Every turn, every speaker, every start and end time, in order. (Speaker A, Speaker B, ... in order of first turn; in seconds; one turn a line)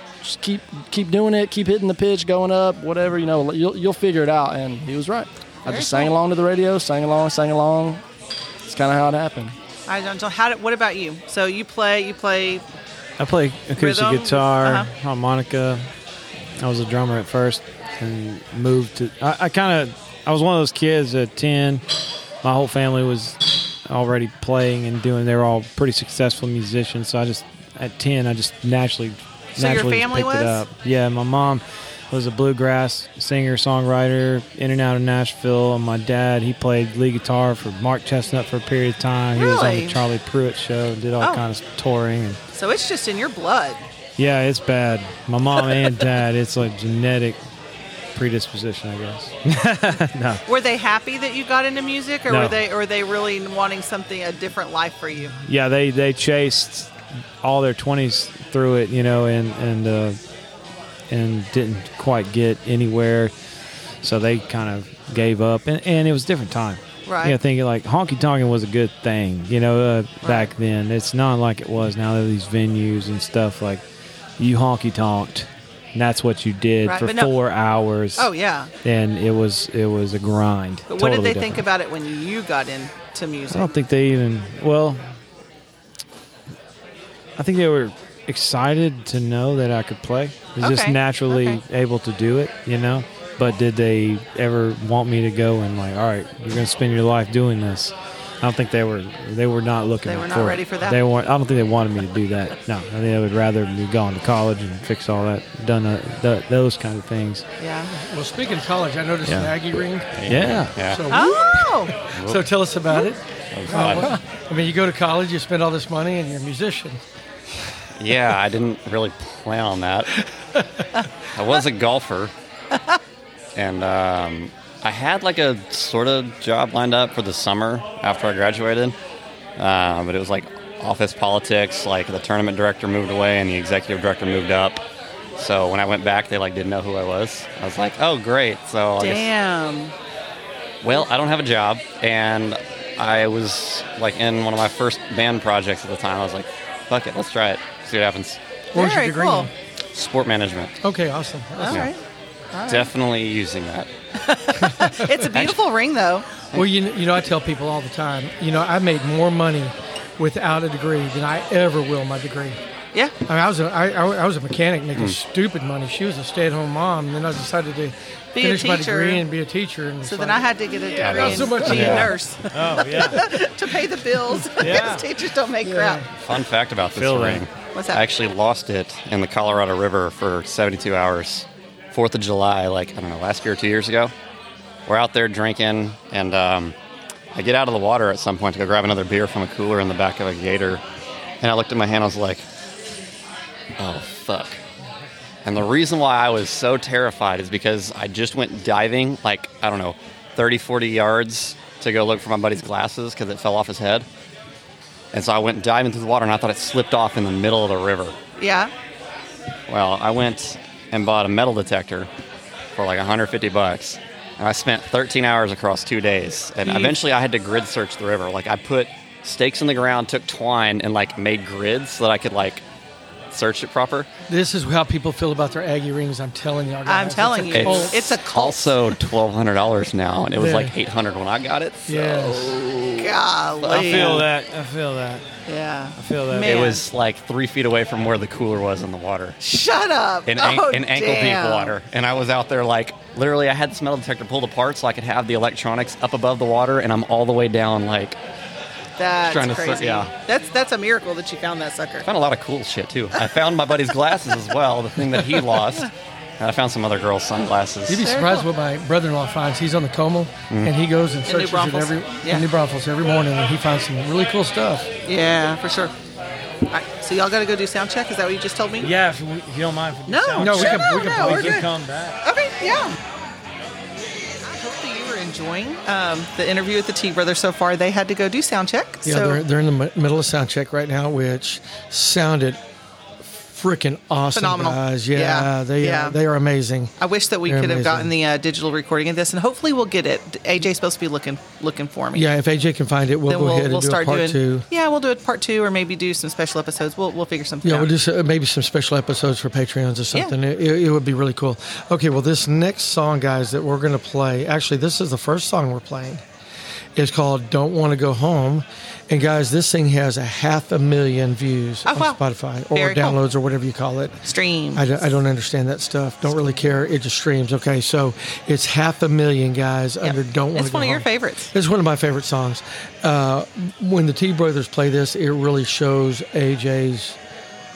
Speaker A: 0.2-8.0
Speaker B: 5.7-6.1
Speaker A: 8.6-9.5
Speaker B: 9.9-12.6
Speaker C: 13.2-15.8
Speaker B: 13.8-14.9
Speaker C: 16.6-21.8
Speaker C: 22.4-31.6
Speaker B: 29.6-30.6
Speaker C: 32.1-42.4
Speaker B: 39.3-40.0
Speaker B: 42.5-43.8
Speaker C: 44.2-47.4
Speaker C: 48.1-50.4
Speaker B: 50.5-55.3
Speaker C: 52.3-52.5
Speaker C: 55.4-56.9
Speaker C: 57.4-60.1
Speaker C: 61.1-63.3
Speaker C: 64.0-73.8
Speaker B: 67.0-67.4
Speaker B: 70.2-70.5
Speaker C: 74.4-78.2
Speaker B: 76.8-77.4
Speaker B: 78.2-78.7
Speaker C: 78.8-81.6
Speaker B: 80.9-83.8
Speaker C: 83.5-85.0
Speaker C: 87.4-107.4
Speaker B: 90.6-91.6
Speaker B: 100.0-101.0
Speaker B: 107.6-107.9
Speaker D: 107.9-110.2
Speaker C: 109.2-109.5
Speaker E: 110.1-111.2
Speaker C: 110.3-110.7
Speaker D: 110.8-117.0
Speaker B: 111.1-111.9
Speaker E: 112.1-112.5
Speaker E: 113.5-114.1
Speaker E: 118.0-120.1
Speaker D: 120.5-120.8
Speaker E: 121.3-122.3
Speaker E: 123.5-128.9
Speaker E: 129.6-134.8
Speaker E: 135.4-139.3
Speaker B: 139.0-139.9
Speaker E: 140.8-148.4
Speaker B: 148.7-149.5
Speaker D: 148.7-149.5
Speaker E: 149.9-150.7
Speaker D: 150.8-151.9
Speaker B: 151.6-152.0
Speaker B: 152.5-152.9
Speaker E: 152.7-153.9
Speaker B: 154.2-156.3
Speaker D: 154.8-155.3
Speaker D: 156.5-162.6
Speaker D: 163.2-172.2
Speaker B: 168.3-169.2
Speaker B: 170.0-176.0
Speaker E: 171.0-172.1
Speaker C: 172.5-173.2
Speaker C: 174.6-175.0
Speaker D: 175.6-176.0
Speaker E: 176.2-184.1
Speaker C: 177.0-177.4
Speaker B: 177.7-178.0
Speaker E: 184.9-186.7
Speaker E: 187.3-190.8
Speaker E: 191.4-192.4
Speaker E: 193.8-194.6
Speaker E: 195.4-204.1
Speaker E: 205.1-208.2
Speaker B: 208.4-208.7
Speaker E: 209.7-212.1
Speaker E: 212.8-222.6
Speaker B: 216.6-217.0
Speaker E: 223.3-224.1
Speaker D: 224.3-228.0
Speaker B: 226.8-228.9
Speaker E: 227.5-234.2
Speaker D: 230.3-230.8
Speaker D: 231.9-232.6
Speaker B: 233.0-234.3
Speaker C: 233.8-235.2
Speaker B: 235.5-236.8
Speaker C: 236.0-236.4
Speaker E: 236.3-239.4
Speaker B: 239.4-241.7
Speaker E: 240.2-248.2
Speaker B: 249.0-252.1
Speaker E: 249.2-250.1
Speaker E: 252.0-258.1
Speaker D: 257.9-264.9
Speaker B: 258.0-258.4
Speaker B: 261.3-262.4
Speaker B: 265.1-265.9
Speaker B: 266.7-268.9
Speaker C: 268.8-270.4
Speaker B: 270.1-271.7
Speaker D: 270.4-271.7
Speaker C: 271.2-272.1
Speaker B: 272.2-272.9
Speaker B: 274.4-279.4
Speaker D: 279.0-282.6
Speaker D: 283.2-286.9
Speaker B: 284.3-286.1
Speaker B: 287.0-292.3
Speaker D: 287.4-288.1
Speaker D: 292.1-294.7
Speaker B: 293.3-297.9
Speaker D: 297.6-306.2
Speaker D: 306.9-327.2
Speaker B: 311.9-312.2
Speaker B: 312.7-313.1
Speaker B: 314.3-314.8
Speaker B: 320.0-321.5